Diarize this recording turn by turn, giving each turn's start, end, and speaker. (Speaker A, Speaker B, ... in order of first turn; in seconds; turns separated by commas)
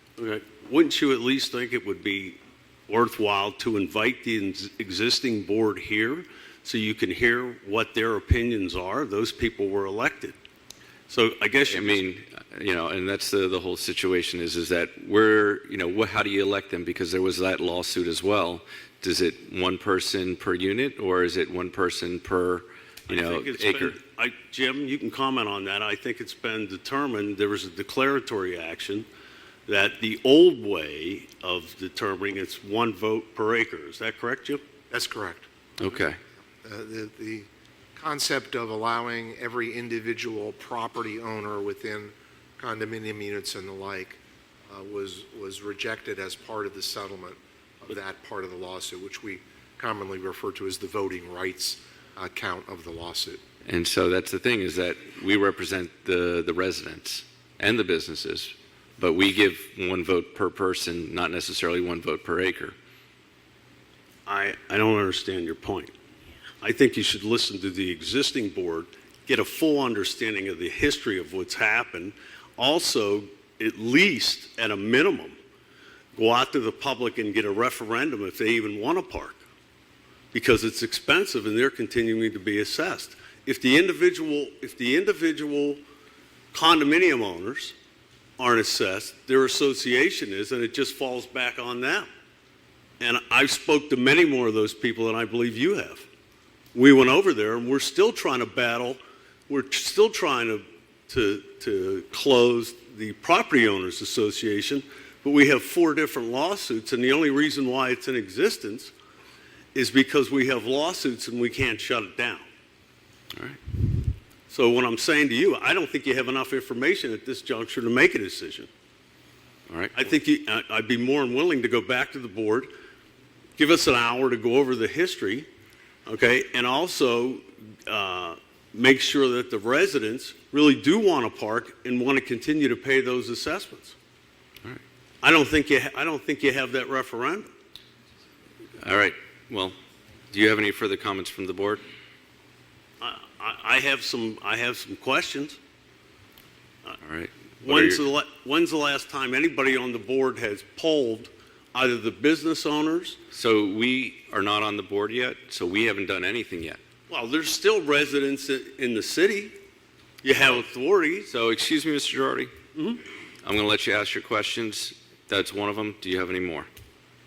Speaker A: 0.2-10.3, Speaker A: 11.1-12.0, Speaker B: 11.7-24.0, Speaker A: 23.1-29.1, Speaker A: 29.7-34.6, Speaker C: 34.9-35.5, Speaker B: 35.8-36.2, Speaker C: 36.6-53.4, Speaker B: 53.6-62.7, Speaker A: 64.3-65.9, Speaker A: 66.6-75.4, Speaker A: 76.1-79.4, Speaker A: 80.3-85.8, Speaker A: 86.5-87.7, Speaker A: 88.4-92.1, Speaker A: 93.0-96.1, Speaker A: 96.7-108.9, Speaker A: 109.7-112.4, Speaker B: 113.3-113.6, Speaker A: 114.5-118.7, Speaker B: 119.7-120.0, Speaker A: 120.0-122.7, Speaker A: 123.6-125.5, Speaker A: 126.0-133.9, Speaker A: 135.2-137.5, Speaker B: 138.8-139.7, Speaker B: 140.3-141.8, Speaker A: 143.0-145.6, Speaker B: 147.0-148.1, Speaker A: 147.6-153.2, Speaker B: 153.3-156.8, Speaker A: 157.1-159.5, Speaker A: 160.2-161.3, Speaker B: 161.2-162.5, Speaker A: 162.7-163.0, Speaker B: 163.4-166.7